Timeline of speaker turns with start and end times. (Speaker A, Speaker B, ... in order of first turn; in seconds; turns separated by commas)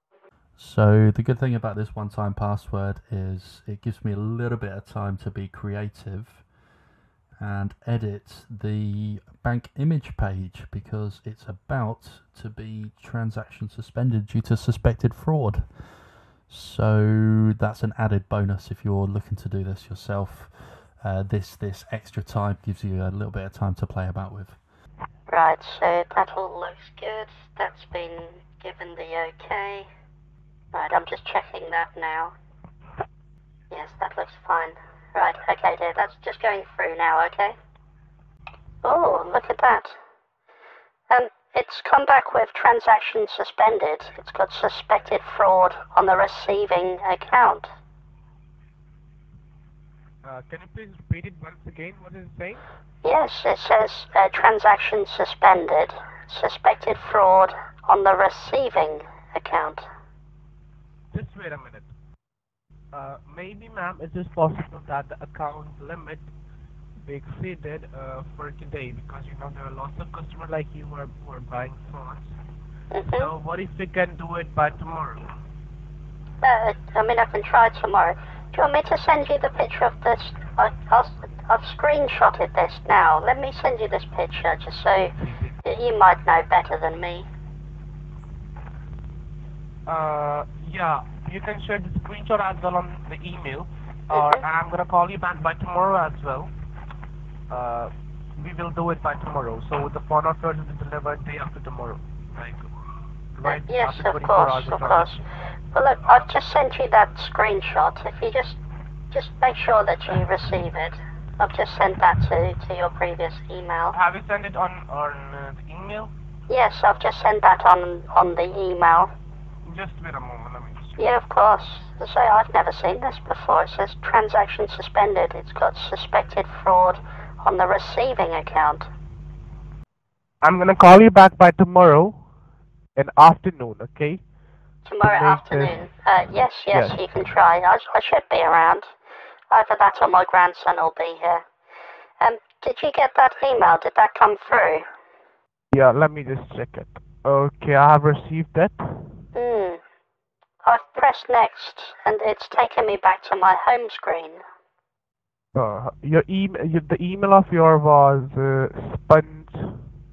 Speaker A: 0.6-6.4, Speaker A: 7.4-15.6, Speaker A: 16.5-24.6, Speaker B: 25.3-29.9, Speaker B: 30.7-32.3, Speaker B: 33.7-37.5, Speaker B: 38.8-40.0, Speaker B: 41.1-47.7, Speaker C: 50.2-52.6, Speaker B: 53.0-59.9, Speaker C: 61.1-61.9, Speaker C: 62.9-66.2, Speaker C: 67.0-72.3, Speaker B: 72.9-73.3, Speaker C: 73.1-75.3, Speaker B: 76.4-87.3, Speaker C: 85.2-85.5, Speaker C: 89.9-96.5, Speaker B: 94.1-94.4, Speaker C: 97.5-102.7, Speaker C: 103.3-105.2, Speaker B: 103.4-108.6, Speaker B: 109.1-114.0, Speaker C: 113.9-116.1, Speaker B: 116.5-119.1, Speaker C: 119.6-121.0, Speaker B: 121.0-128.9, Speaker C: 130.4-132.2, Speaker C: 132.9-134.2, Speaker B: 134.8-138.9, Speaker C: 135.0-135.8, Speaker C: 136.7-137.0, Speaker B: 139.5-141.4, Speaker B: 142.2-144.8, Speaker C: 145.7-148.8, Speaker B: 149.3-149.8, Speaker B: 150.6-154.4, Speaker C: 155.5-159.7